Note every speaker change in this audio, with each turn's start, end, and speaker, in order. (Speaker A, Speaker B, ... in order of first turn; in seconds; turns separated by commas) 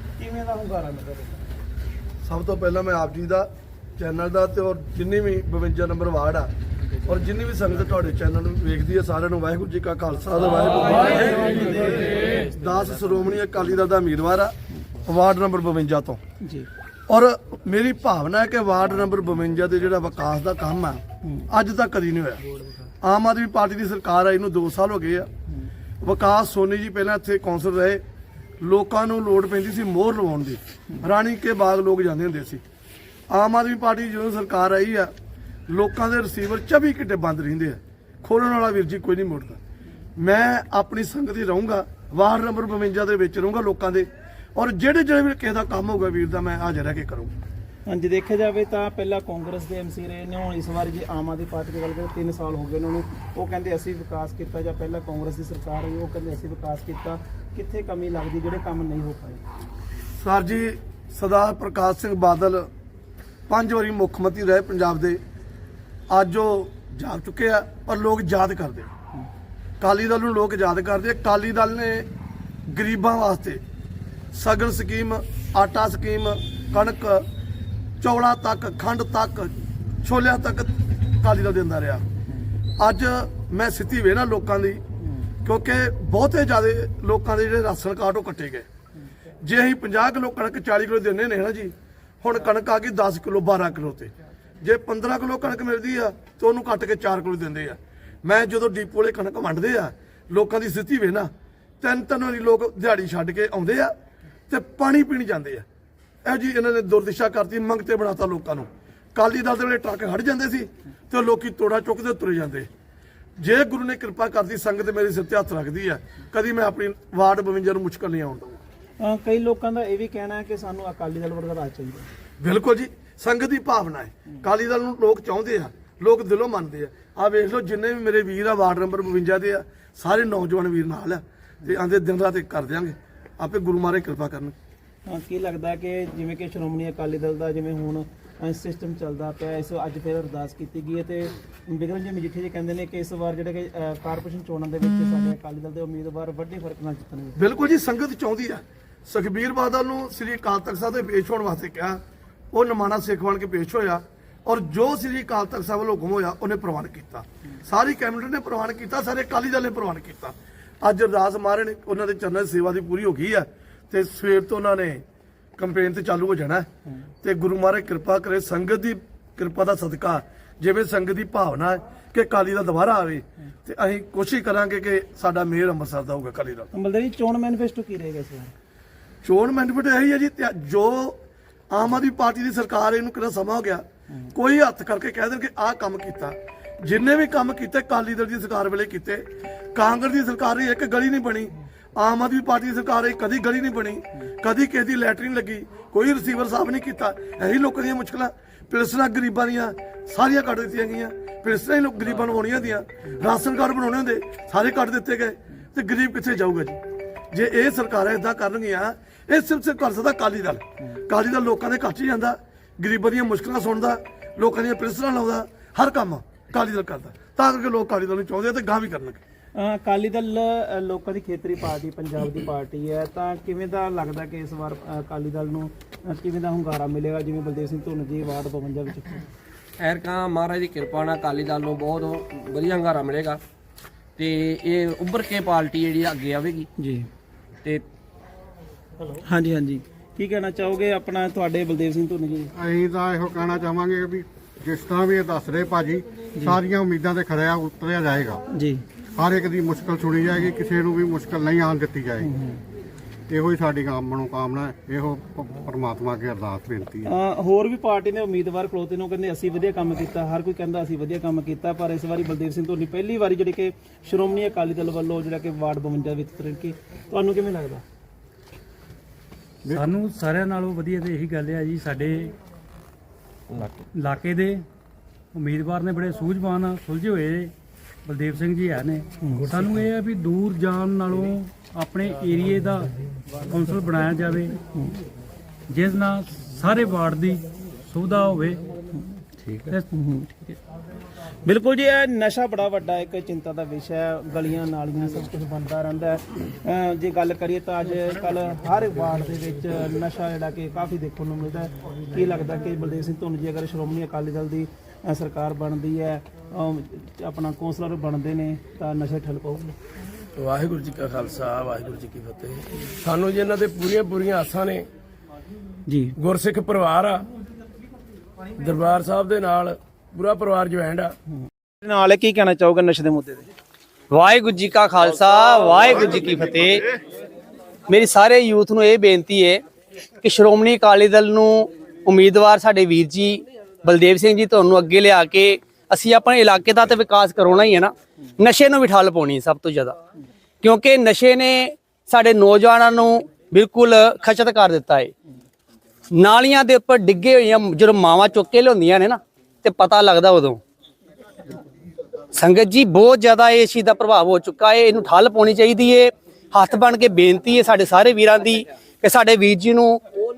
Speaker A: 0.2-1.5, Speaker B: 2.2-6.5, Speaker B: 7.0-16.2, Speaker A: 11.4-12.1, Speaker A: 16.4-16.7, Speaker B: 17.1-22.4, Speaker B: 23.0-25.3, Speaker B: 26.0-28.0, Speaker B: 28.6-32.6, Speaker B: 33.3-35.1, Speaker B: 35.7-39.6, Speaker B: 40.2-47.3, Speaker A: 47.9-59.4, Speaker B: 60.2-62.7, Speaker B: 63.5-65.2, Speaker B: 66.1-68.9, Speaker B: 69.8-72.1, Speaker B: 72.7-73.6, Speaker B: 74.3-77.3, Speaker B: 78.0-82.1, Speaker B: 82.8-84.8, Speaker A: 85.0-85.3, Speaker B: 85.5-88.7, Speaker B: 89.4-104.0, Speaker B: 104.5-105.7, Speaker B: 106.2-112.7, Speaker B: 113.4-118.6, Speaker A: 119.0-122.1, Speaker B: 122.4-134.6, Speaker A: 135.1-147.4, Speaker B: 147.4-152.0, Speaker B: 152.5-165.0, Speaker B: 165.6-166.7, Speaker B: 167.2-176.7, Speaker A: 176.7-178.5, Speaker B: 179.2-206.8, Speaker B: 207.3-219.2, Speaker A: 219.6-229.2, Speaker C: 229.8-233.4, Speaker C: 234.2-236.7, Speaker A: 236.8-237.1, Speaker A: 239.2-242.5, Speaker D: 242.5-248.4, Speaker A: 248.5-248.8, Speaker D: 249.2-252.3, Speaker A: 252.2-252.6, Speaker D: 253.3-257.1, Speaker A: 257.1-267.8, Speaker E: 269.7-272.3, Speaker E: 273.9-274.6, Speaker E: 275.3-277.5, Speaker E: 278.1-282.9, Speaker E: 283.5-284.6, Speaker E: 285.7-288.6, Speaker E: 289.5-289.9, Speaker A: 289.9-290.6, Speaker A: 291.4-309.8, Speaker F: 310.4-314.9, Speaker A: 315.9-316.1, Speaker F: 316.2-317.3, Speaker F: 318.6-321.1, Speaker A: 321.4-323.5, Speaker G: 324.1-326.9, Speaker G: 327.9-329.6, Speaker G: 330.2-340.0, Speaker G: 340.6-345.1, Speaker G: 346.2-350.6, Speaker G: 352.3-360.0